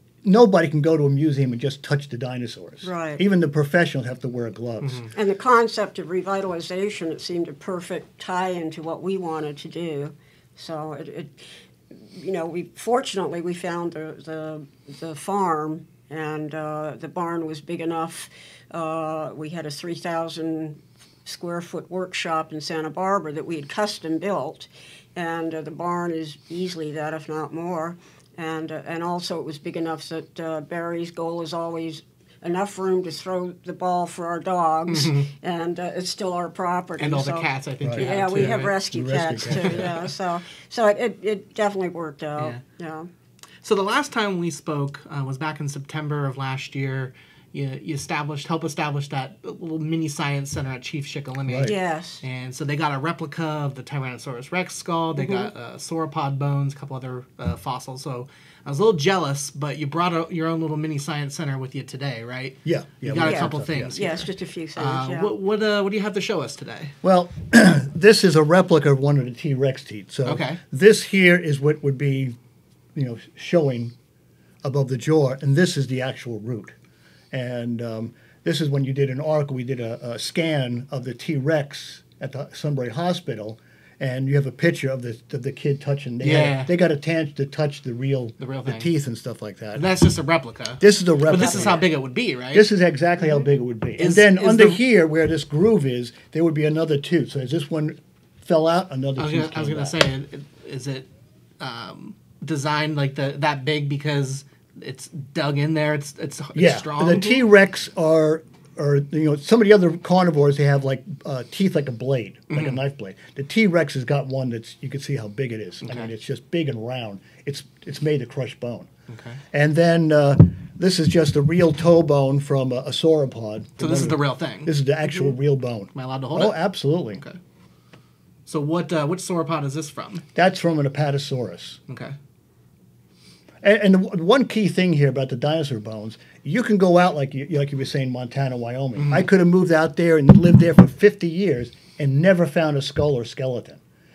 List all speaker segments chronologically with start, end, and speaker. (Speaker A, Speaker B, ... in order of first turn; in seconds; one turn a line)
Speaker A: 0.2-5.1
Speaker B: 2.8-3.2
Speaker C: 4.8-5.1
Speaker B: 5.1-43.1
Speaker C: 34.9-35.3
Speaker C: 37.0-38.8
Speaker A: 37.8-39.9
Speaker C: 39.4-40.0
Speaker C: 43.6-66.9
Speaker A: 51.5-51.7
Speaker B: 51.6-52.2
Speaker B: 55.1-55.5
Speaker A: 62.6-64.0
Speaker B: 63.2-65.3
Speaker A: 67.0-72.3
Speaker C: 70.2-70.6
Speaker A: 72.9-73.9
Speaker A: 74.6-76.8
Speaker A: 77.3-89.8
Speaker C: 86.2-86.7
Speaker C: 88.4-88.9
Speaker C: 89.7-92.7
Speaker A: 90.8-91.9
Speaker A: 92.5-99.9
Speaker C: 94.0-94.8
Speaker C: 99.2-101.1
Speaker C: 101.6-107.3
Speaker A: 106.5-118.9
Speaker C: 112.5-112.8
Speaker C: 115.8-116.1
Speaker C: 119.1-119.4
Speaker A: 119.5-127.2
Speaker C: 123.8-125.3
Speaker C: 125.9-127.4
Speaker C: 128.5-130.2
Speaker A: 130.3-131.8
Speaker C: 131.9-132.1
Speaker A: 133.6-143.8
Speaker C: 138.9-139.3